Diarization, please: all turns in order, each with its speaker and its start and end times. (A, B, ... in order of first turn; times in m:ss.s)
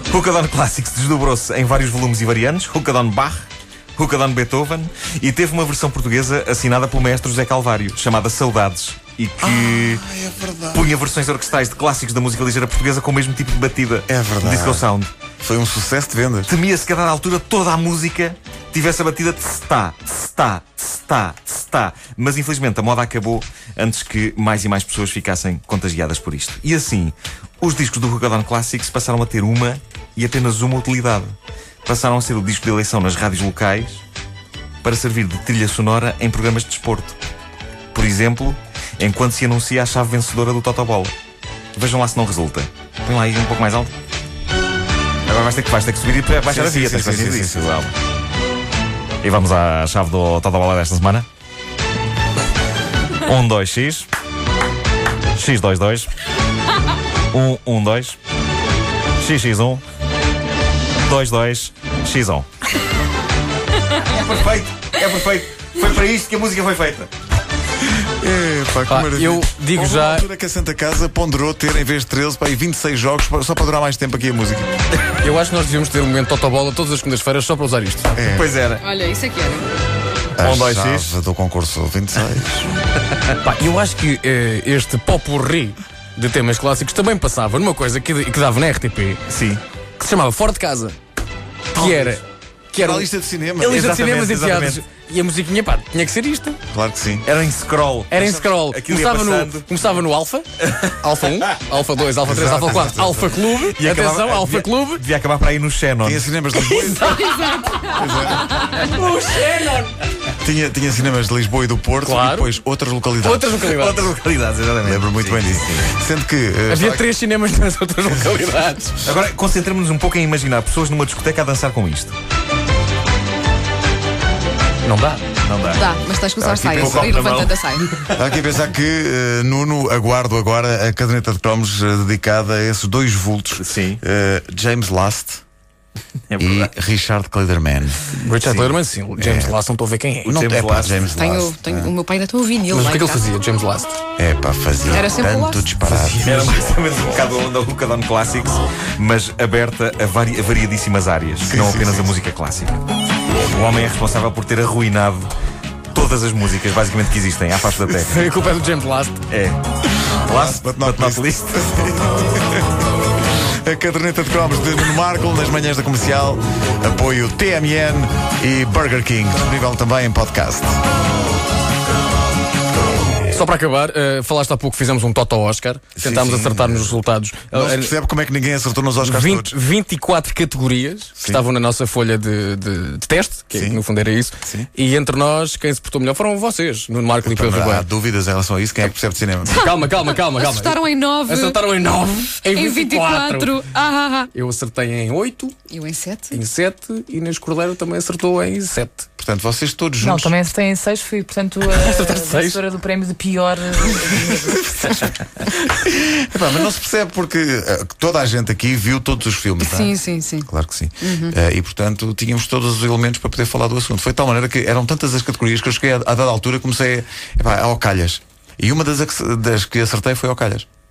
0:00.1-0:10.0 A
0:09.4-0:10.9 B
0:10.7-0:15.1 A
0:14.1-0:14.9 B
0:15.4-0:16.5 B
0:16.5-0:34.0 A
0:34.8-0:37.2 A
0:37.9-0:41.1 A
0:41.8-0:43.9 A
0:45.3-0:47.9 A
0:46.5-0:47.7 B
0:49.2-0:51.3 A
0:53.2-0:54.1 A
0:55.3-0:56.1 A
0:57.3-0:58.2 A
0:59.2-0:59.8 A
1:01.0-1:02.5 A
1:04.0-1:07.1 A
1:07.8-1:14.7 B
1:08.9-1:10.3 C
1:15.2-1:18.1 C
1:18.2-1:18.5 B
1:18.3-1:18.8 A
1:18.8-1:19.7 D
1:20.4-1:22.7 B
1:20.4-1:21.2 A
1:23.4-1:29.2 C
1:29.3-1:29.6 A
1:30.0-1:31.0 C
1:31.7-1:33.1 C
1:31.8-1:32.2 B
1:32.8-1:33.8 B
1:33.6-1:36.6 C
1:33.6-1:34.8 A
1:36.7-1:37.3 B
1:37.2-1:39.7 A
1:38.1-1:40.5 C
1:40.6-1:41.0 A
1:41.0-1:45.0 C
1:42.2-1:43.4 B
1:43.8-1:46.3 A
1:46.0-1:48.5 B
1:46.6-1:47.9 C
1:48.6-1:49.9 C
1:50.4-1:53.6 B
1:52.0-1:52.5 C
1:53.2-1:54.1 C
1:53.6-1:55.9 A
1:54.8-1:57.2 B
1:56.7-1:59.0 C
1:59.0-2:02.2 A
2:04.8-2:05.2 C
2:05.4-2:05.9 A
2:05.7-2:07.9 D
2:06.4-2:07.1 B
2:06.7-2:08.4 A
2:08.1-2:15.4 B
2:13.6-2:14.0 A
2:16.3-2:16.7 A
2:16.4-2:18.0 B
2:18.1-2:20.4 C
2:18.3-2:18.8 A
2:19.2-2:19.6 B
2:20.2-2:21.1 A
2:20.2-2:22.0 B
2:21.1-2:23.2 D
2:22.7-2:24.0 C
2:24.2-2:26.4 B
2:24.9-2:25.7 D
2:25.8-2:26.4 C
2:26.1-2:32.8 A
2:31.4-2:32.1 B
2:33.4-2:35.3 A
2:35.9-2:38.3 A
2:37.9-2:39.2 C
2:39.3-2:39.6 A
2:40.2-2:41.9 A
2:40.3-2:42.7 B
2:43.4-2:50.8 B
2:53.3-2:58.0 C
2:56.0-2:57.0 B
2:57.5-2:59.6 B
2:59.0-3:07.9 C
3:01.2-3:01.4 B
3:03.5-3:03.8 B
3:04.4-3:04.7 B
3:07.2-3:09.6 B
3:09.5-3:13.6 C
3:10.4-3:11.6 D
3:12.4-3:14.3 D
3:14.3-3:15.5 C
3:15.7-3:16.4 D
3:16.3-3:19.1 C
3:19.2-3:20.4 B
3:20.0-3:24.8 E
3:21.6-3:22.7 C
3:23.7-3:24.3 C
3:24.9-3:25.6 C
3:25.8-3:40.7 B
3:29.6-3:30.5 D
3:31.0-3:31.4 D